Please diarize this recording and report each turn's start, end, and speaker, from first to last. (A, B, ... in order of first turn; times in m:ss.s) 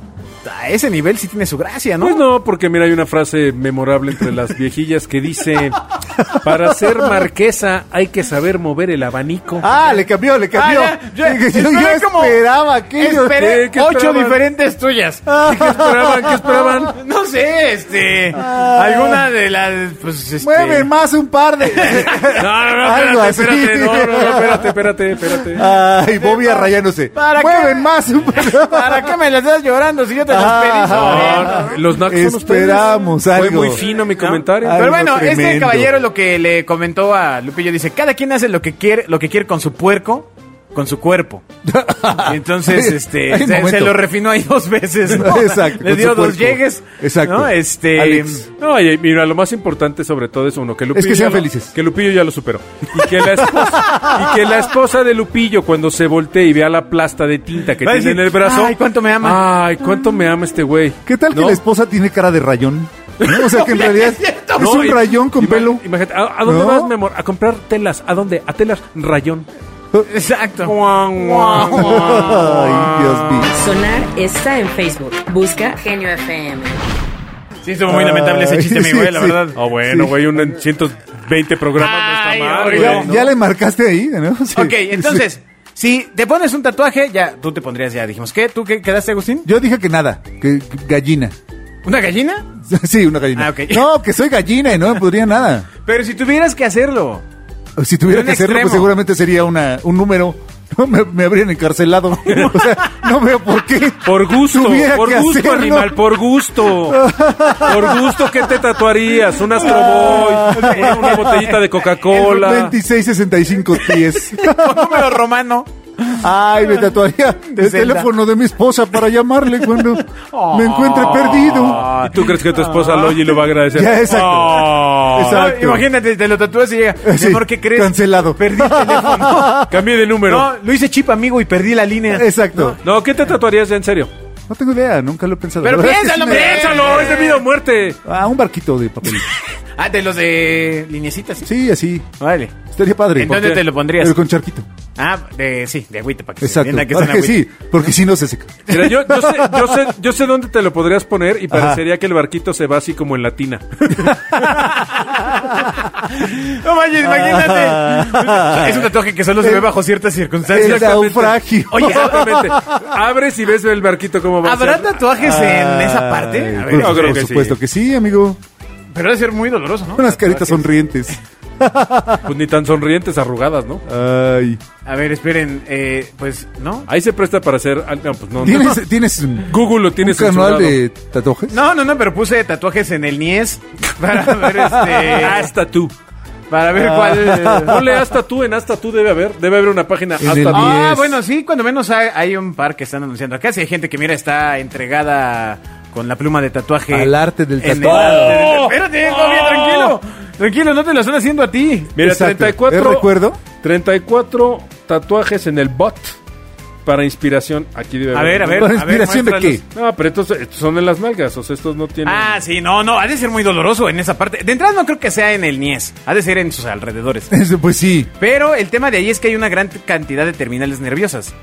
0:00.4-0:02.2 A
0:02.0-0:09.7 B
0:06.2-0:07.2 C
0:09.6-0:13.4 C
0:09.7-0:12.4 A
0:13.0-0:15.4 A
0:13.3-0:14.4 B
0:15.3-0:16.7 C
0:15.4-0:17.0 B
0:16.9-0:20.9 A
0:18.3-0:19.2 C
0:20.4-0:24.7 C
0:21.6-0:22.4 A
0:22.3-0:25.6 B
0:23.4-0:24.6 A
0:25.4-0:29.1 C
0:26.1-0:31.8 A
0:30.3-0:33.8 C
0:30.9-0:34.9 B
0:34.1-0:41.4 A
0:34.6-0:35.9 C
0:41.6-0:44.0 C
0:42.2-0:48.4 A
0:45.0-0:48.4 C
0:48.6-1:01.6 B
0:50.9-0:51.7 C
0:53.4-0:54.4 A
0:57.8-0:59.4 A
1:01.0-1:05.8 C
1:03.2-1:04.9 A
1:04.6-1:09.5 B
1:06.4-1:06.9 C
1:10.0-1:13.5 A
1:10.6-1:12.3 B
1:11.7-1:13.5 C
1:13.5-1:16.8 D
1:17.6-1:19.6 A
1:17.9-1:20.4 C
1:19.5-1:23.3 B
1:21.8-1:23.2 A
1:22.7-1:25.2 C
1:24.5-1:29.5 A
1:29.4-1:31.3 C
1:31.8-1:32.5 A
1:32.6-1:35.7 C
1:33.3-1:33.9 A
1:35.8-1:37.2 A
1:37.8-1:46.0 C
1:38.1-1:38.9 A
1:44.0-1:52.7 B
1:46.8-1:48.4 C
1:49.6-1:51.4 C
1:49.6-1:51.8 A
1:52.1-1:55.1 C
1:53.8-1:56.1 A
1:56.1-2:01.8 C
1:57.5-1:58.1 A
2:00.2-2:03.4 A
2:01.4-2:05.0 B
2:03.7-2:05.8 C
2:04.0-2:09.6 A
2:07.0-2:09.7 C
2:09.7-2:10.5 B
2:10.2-2:12.3 A
2:12.1-2:12.8 C
2:12.6-2:14.1 B
2:14.5-2:17.0 C
2:15.6-2:17.4 A
2:16.1-2:18.0 B
2:18.0-2:19.3 C
2:19.8-2:21.5 A
2:21.4-2:22.0 C
2:22.2-2:22.6 A
2:22.7-2:24.6 C
2:23.2-2:24.2 A
2:23.2-2:23.6 B
2:25.0-2:27.4 A
2:26.4-2:29.8 C
2:28.7-2:34.1 B
2:31.5-2:31.8 C
2:34.4-2:35.2 A
2:35.4-2:35.7 C
2:36.1-2:41.1 A
2:37.0-2:39.7 C
2:40.5-2:42.9 C
2:40.5-2:45.0 B
2:41.7-2:42.5 A
2:44.4-2:47.2 A
2:45.2-2:48.4 C
2:46.7-2:47.6 B
2:48.9-2:50.7 A
2:49.9-2:52.3 C
2:52.2-2:53.8 B
2:53.9-2:54.6 C
2:54.8-2:56.9 A
2:56.9-2:58.8 B
2:58.4-3:01.6 C
2:59.4-3:00.8 B
3:01.5-3:05.5 A
3:04.4-3:05.0 C
3:04.9-3:05.9 B
3:06.5-3:07.8 A
3:06.7-3:08.0 C
3:07.4-3:10.9 B
3:10.2-3:11.2 C
3:10.5-3:22.0 A
3:16.9-3:18.5 C
3:17.8-3:20.0 B
3:21.9-3:26.2 B
3:22.0-3:23.4 C
3:26.8-3:28.7 B
3:28.1-3:29.6 A
3:28.5-3:29.6 C
3:29.7-3:32.4 B
3:32.0-3:37.3 A
3:37.3-3:38.1 C
3:38.2-3:41.3 A